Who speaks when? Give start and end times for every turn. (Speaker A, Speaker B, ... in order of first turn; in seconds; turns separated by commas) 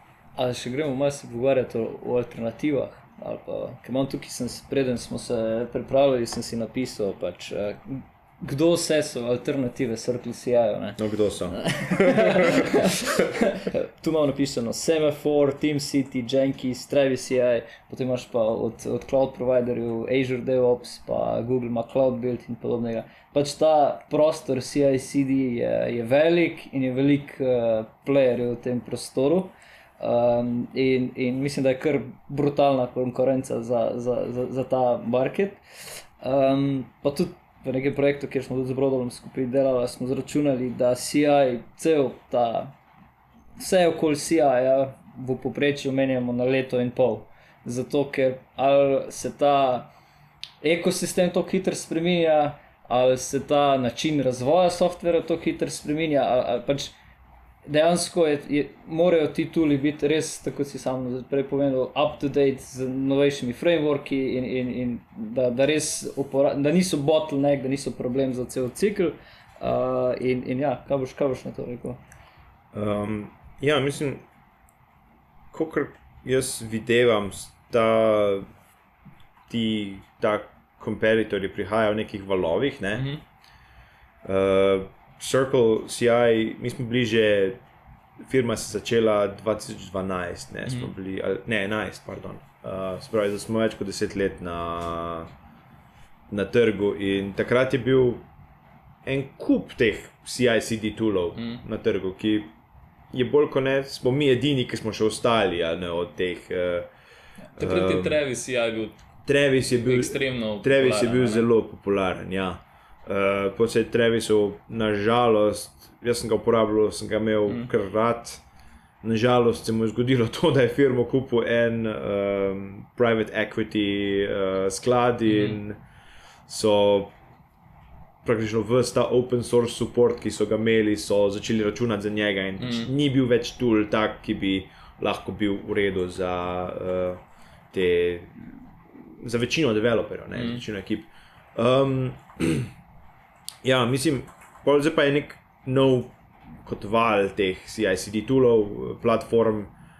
Speaker A: 0.3-42.8, Speaker B: 11.0-13.1, Speaker A: 43.6-49.9, Speaker A: 50.6-57.0, Speaker A: 57.6-72.0, Speaker B: 72.7-74.2, Speaker B: 75.5-78.5, Speaker B: 79.5-83.1, Speaker C: 83.0-83.2, Speaker B: 84.2-87.6, Speaker B: 88.2-95.3, Speaker C: 90.7-90.9, Speaker B: 96.3-98.2, Speaker B: 99.0-102.5, Speaker C: 101.3-101.6, Speaker B: 103.1-106.9, Speaker B: 107.6-108.2, Speaker C: 107.6-109.1, Speaker B: 109.2-118.4, Speaker C: 109.8-111.5, Speaker B: 119.0-125.8, Speaker C: 125.3-125.6, Speaker B: 126.5-127.1, Speaker B: 128.2-142.7, Speaker C: 132.6-132.9, Speaker C: 140.3-140.6, Speaker B: 143.6-149.7